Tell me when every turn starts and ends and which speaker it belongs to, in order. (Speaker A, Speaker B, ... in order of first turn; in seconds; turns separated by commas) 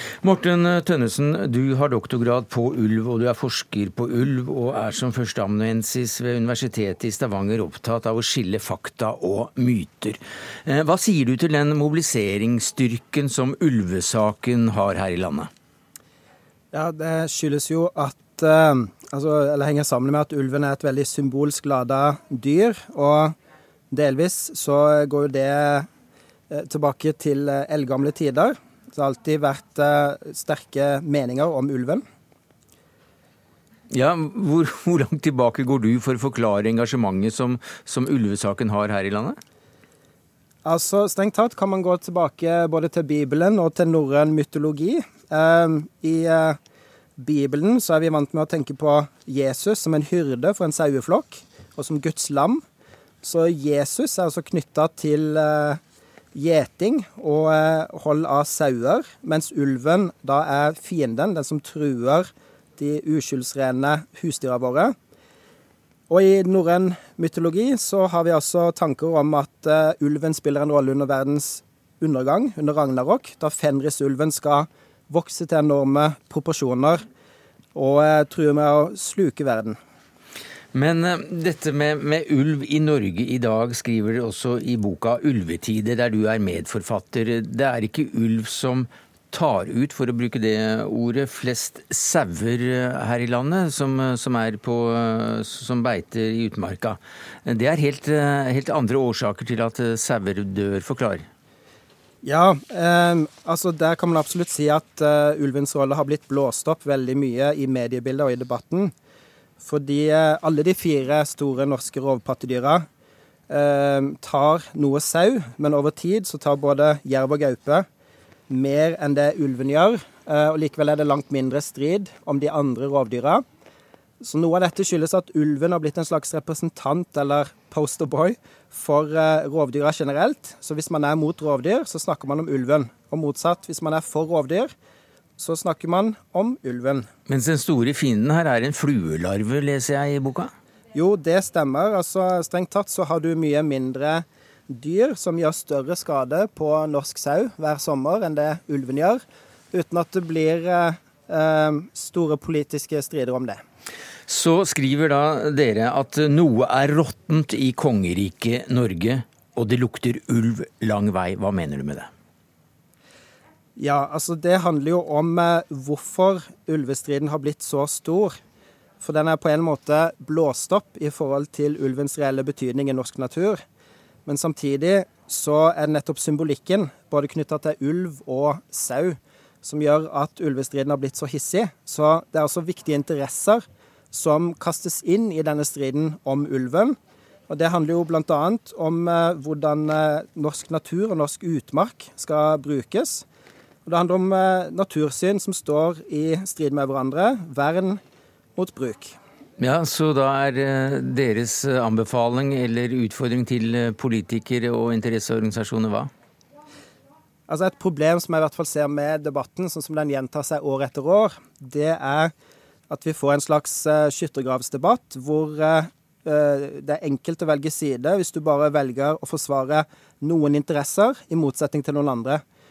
Speaker A: 0.2-15.5, Speaker B: 16.7-23.3, Speaker B: 23.9-25.9, Speaker B: 26.5-32.0, Speaker A: 33.9-39.4, Speaker B: 40.6-46.6, Speaker B: 47.2-52.6, Speaker B: 53.2-55.8, Speaker B: 56.3-64.9, Speaker B: 66.1-77.0, Speaker B: 77.7-79.8, Speaker A: 80.7-101.3, Speaker B: 102.2-108.9, Speaker B: 109.6-112.8, Speaker B: 113.5-117.8, Speaker B: 118.5-123.4, Speaker B: 124.2-134.7, Speaker B: 135.4-137.1, Speaker A: 137.3-140.5, Speaker B: 140.9-149.2, Speaker B: 149.7-153.6, Speaker A: 154.3-162.1, Speaker B: 163.8-168.4, Speaker B: 169.0-173.6, Speaker B: 174.3-187.0, Speaker B: 187.5-193.2, Speaker B: 193.8-198.0, Speaker B: 198.6-199.2, Speaker A: 199.6-206.1, Speaker B: 207.5-212.3, Speaker B: 212.9-222.4